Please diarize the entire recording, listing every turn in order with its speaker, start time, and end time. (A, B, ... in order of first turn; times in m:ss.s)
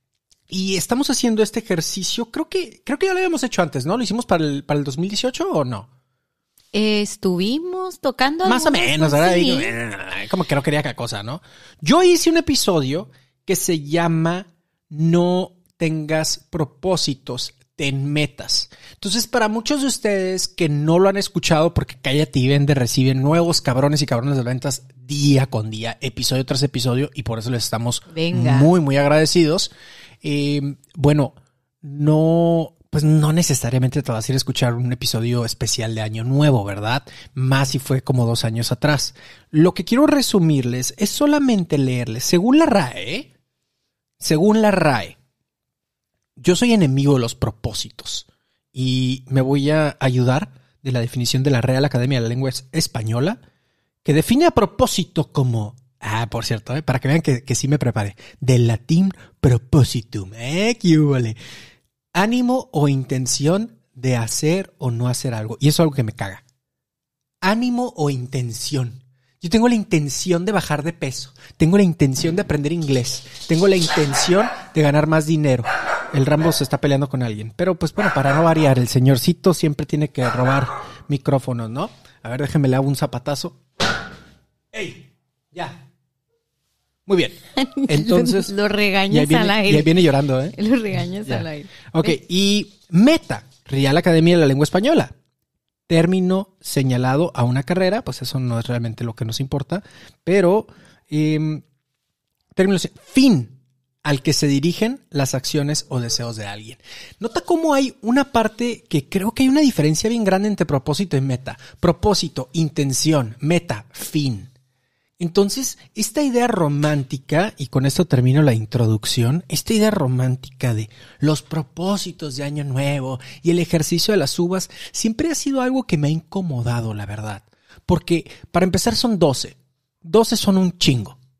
0:00.5-0:05.9 A
0:06.7-0:09.7 B
0:08.4-0:29.7 A
0:28.1-0:28.7 B
0:30.2-0:43.3 A
0:44.2-0:45.2 A
0:46.4-0:53.4 A
0:54.0-1:01.4 A
1:02.1-1:06.4 A
1:07.4-1:23.6 A
1:24.7-1:25.8 A
1:27.0-1:28.5 A
1:27.6-1:29.9 B
1:29.1-1:30.6 A
1:30.5-1:32.1 B
1:31.2-1:35.1 A
1:35.9-1:41.6 A
1:42.5-1:54.5 A
1:55.2-2:11.2 A